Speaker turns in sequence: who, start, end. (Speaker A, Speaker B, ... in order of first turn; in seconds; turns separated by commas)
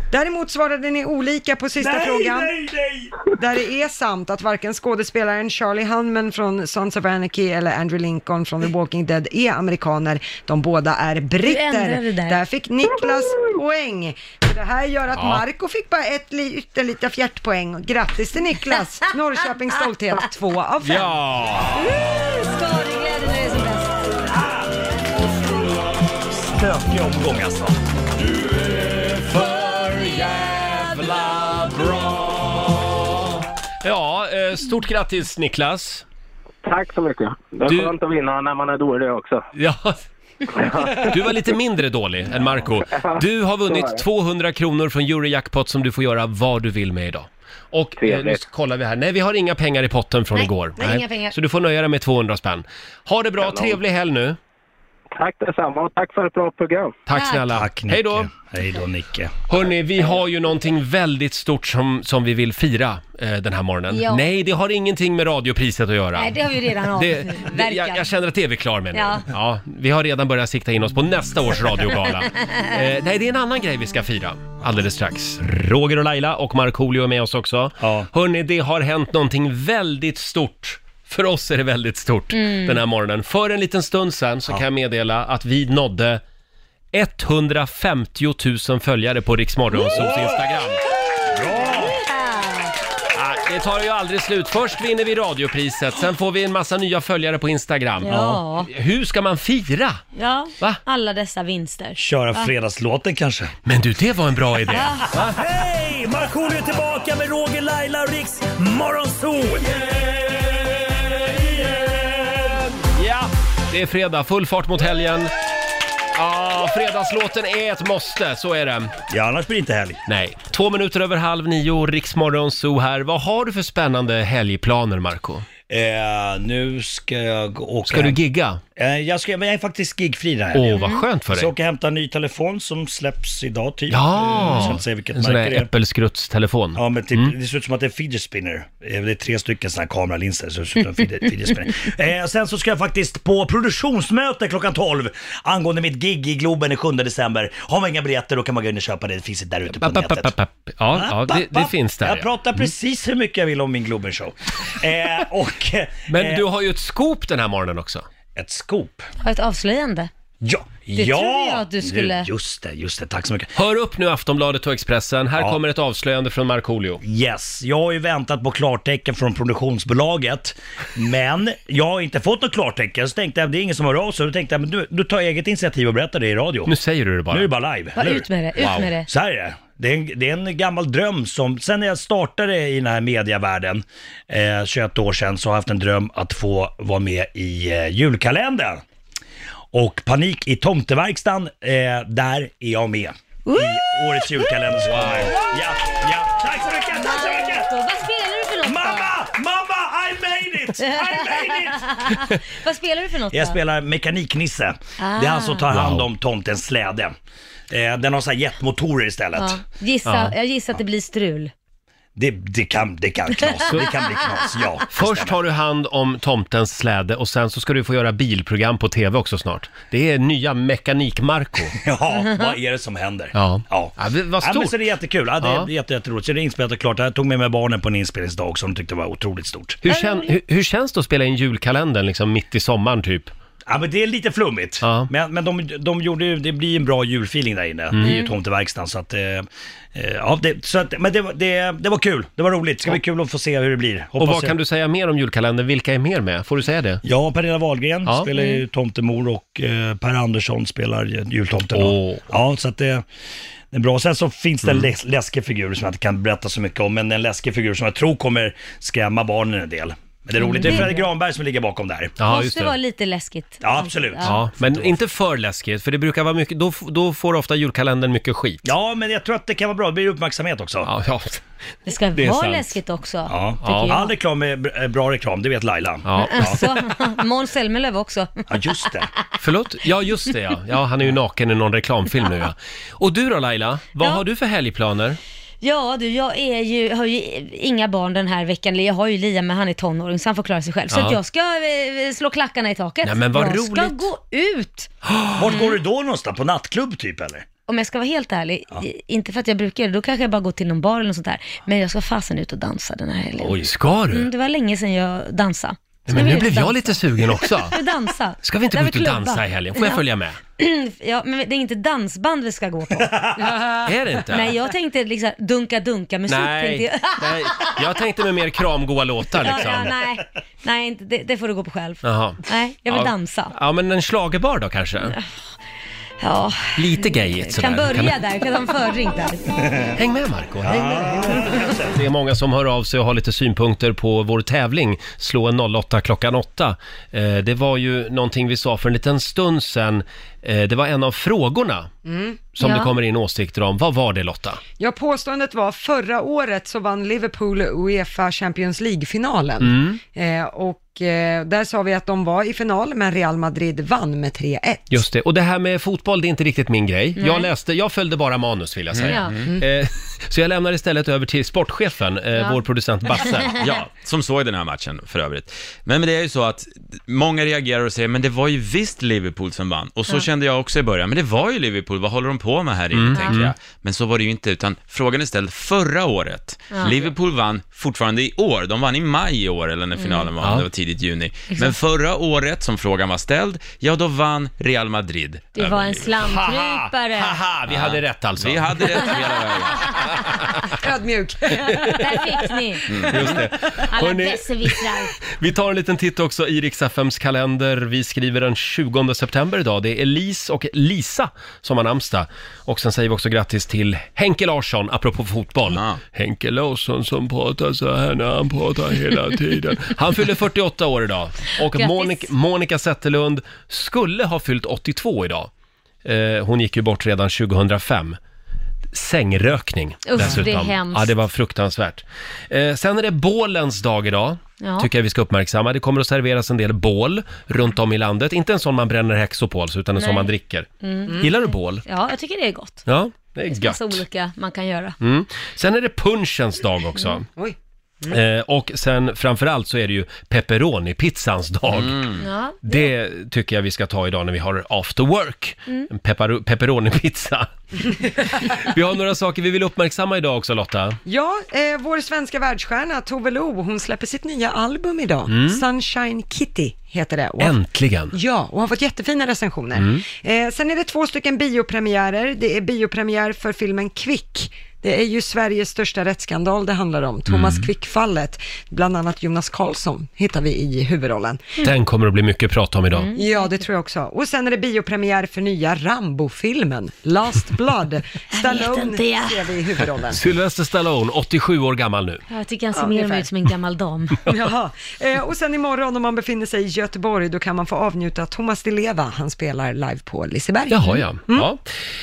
Speaker A: 0.1-2.6, Speaker B: 1.8-3.2, Speaker A: 3.4-21.1, Speaker C: 11.4-12.4, Speaker D: 15.2-15.4, Speaker D: 20.8-21.8, Speaker C: 21.7-24.2, Speaker B: 24.3-24.7, Speaker B: 26.3-27.8, Speaker D: 28.9-32.5, Speaker C: 30.4-31.0, Speaker D: 33.8-36.0, Speaker E: 36.6-39.5, Speaker D: 37.6-38.0, Speaker D: 39.5-40.0, Speaker E: 40.6-41.2, Speaker D: 41.0-54.4, Speaker E: 42.9-44.0, Speaker E: 48.0-48.4, Speaker C: 50.3-51.3, Speaker E: 53.4-53.8, Speaker E: 55.1-56.9, Speaker D: 57.1-58.3, Speaker C: 57.1-57.4, Speaker B: 57.5-59.3, Speaker D: 59.5-86.2, Speaker C: 63.9-64.3, Speaker C: 66.1-68.1, Speaker C: 68.9-69.2, Speaker B: 77.8-78.1, Speaker C: 82.4-82.8, Speaker D: 86.9-90.8, Speaker B: 89.9-90.4, Speaker B: 91.3-92.0, Speaker C: 91.8-92.7, Speaker D: 93.1-100.0, Speaker C: 98.0-98.7, Speaker C: 100.1-102.5, Speaker B: 102.0-103.5, Speaker D: 103.6-105.4, Speaker C: 104.7-105.1, Speaker B: 105.3-112.6, Speaker D: 112.8-115.3, Speaker D: 116.1-118.9, Speaker B: 119.1-120.0, Speaker D: 120.1-125.5, Speaker B: 125.7-128.2, Speaker D: 127.9-128.6, Speaker B: 128.8-130.8, Speaker D: 130.5-131.5, Speaker B: 131.3-135.7, Speaker D: 133.9-137.3, Speaker B: 136.7-150.3, Speaker D: 149.8-152.3, Speaker B: 150.9-156.4, Speaker D: 156.1-158.0, Speaker B: 158.3-159.1, Speaker C: 159.2-160.1, Speaker B: 160.4-163.5, Speaker C: 160.9-162.3, Speaker D: 163.6-167.0, Speaker B: 167.0-176.7, Speaker D: 176.7-177.5, Speaker B: 177.3-188.8, Speaker C: 178.0-179.1, Speaker B: 189.7-197.7, Speaker C: 193.5-194.2, Speaker D: 194.8-195.3, Speaker C: 195.3-195.6, Speaker C: 196.9-199.1, Speaker B: 198.6-201.9, Speaker C: 200.8-203.6, Speaker B: 203.3-207.1, Speaker C: 205.0-205.7, Speaker D: 205.7-206.1, Speaker B: 207.7-209.6, Speaker C: 209.3-211.5, Speaker D: 210.0-210.3, Speaker B: 212.2-215.4, Speaker D: 214.9-221.8, Speaker B: 221.8-229.8, Speaker D: 223.3-224.8, Speaker D: 225.4-225.7, Speaker D: 229.8-233.3, Speaker C: 229.8-230.3, Speaker B: 233.7-244.6, Speaker D: 234.8-235.1, Speaker D: 237.9-238.2, Speaker C: 238.0-238.3, Speaker D: 244.2-247.0, Speaker B: 247.0-253.0, Speaker C: 248.3-248.6, Speaker D: 251.7-252.2, Speaker B: 253.7-262.2, Speaker C: 260.4-261.1, Speaker D: 262.2-262.8, Speaker C: 262.2-264.4, Speaker B: 263.6-264.9, Speaker D: 264.2-268.7, Speaker B: 268.6-270.9, Speaker D: 270.8-271.4, Speaker C: 271.9-274.1, Speaker D: 272.1-272.8, Speaker B: 273.3-276.6, Speaker D: 273.6-274.0, Speaker D: 276.0-276.7, Speaker C: 276.3-278.3, Speaker B: 278.5-279.1, Speaker D: 279.4-285.2, Speaker C: 285.6-294.9, Speaker D: 290.9-291.2, Speaker D: 293.0-294.1, Speaker D: 295.1-295.4, Speaker B: 295.4-297.4, Speaker C: 295.4-295.8, Speaker C: 297.7-310.0, Speaker B: 303.4-303.7, Speaker D: 303.6-304.3, Speaker D: 306.1-307.8, Speaker D: 308.4-310.4, Speaker C: 310.6-313.4, Speaker B: 313.0-313.3, Speaker D: 313.8-314.6, Speaker C: 314.3-317.7, Speaker D: 316.3-319.9, Speaker C: 319.4-323.5, Speaker D: 322.0-325.2, Speaker C: 326.2-329.4, Speaker D: 326.8-328.2, Speaker D: 329.9-341.9, Speaker B: 330.6-331.9, Speaker A: 342.0-342.4, Speaker D: 342.5-344.6, Speaker C: 342.6-342.9, Speaker A: 344.8-355.0, Speaker D: 349.6-350.0, Speaker D: 354.9-363.6, Speaker C: 357.2-357.5, Speaker F: 358.9-359.5, Speaker C: 359.1-359.4, Speaker C: 362.3-362.6, Speaker C: 363.1-363.5, Speaker F: 363.6-385.8, Speaker D: 372.9-373.5, Speaker C: 373.1-373.4, Speaker C: 376.7-377.0, Speaker C: 379.9-380.3, Speaker C: 381.5-381.8, Speaker C: 385.5-387.5, Speaker D: 385.6-389.1, Speaker F: 387.7-389.9, Speaker C: 388.8-389.3, Speaker D: 389.9-390.6, Speaker A: 390.8-393.3, Speaker C: 392.0-393.2, Speaker D: 393.1-415.5, Speaker C: 393.9-395.1, Speaker F: 405.7-406.0, Speaker C: 411.7-412.3, Speaker D: 416.0-418.2, Speaker D: 418.9-431.8, Speaker C: 420.1-421.1, Speaker C: 424.6-424.9, Speaker C: 430.0-432.8, Speaker A: 431.1-431.3, Speaker D: 432.9-434.0, Speaker C: 433.5-434.9, Speaker D: 435.0-437.2, Speaker A: 437.3-438.1, Speaker D: 438.1-442.1, Speaker F: 441.7-442.2, Speaker C: 442.2-442.9, Speaker D: 442.6-447.5, Speaker D: 448.3-451.0, Speaker A: 451.1-457.6, Speaker D: 455.3-455.6, Speaker D: 457.4-458.1, Speaker A: 458.1-471.6, Speaker D: 459.8-460.0, Speaker D: 467.3-467.7, Speaker D: 471.6-473.1, Speaker C: 472.9-473.6, Speaker A: 473.1-480.2, Speaker C: 478.3-479.5, Speaker D: 480.1-482.2, Speaker C: 482.3-484.3, Speaker A: 482.7-483.3, Speaker A: 484.2-491.5, Speaker D: 490.7-491.6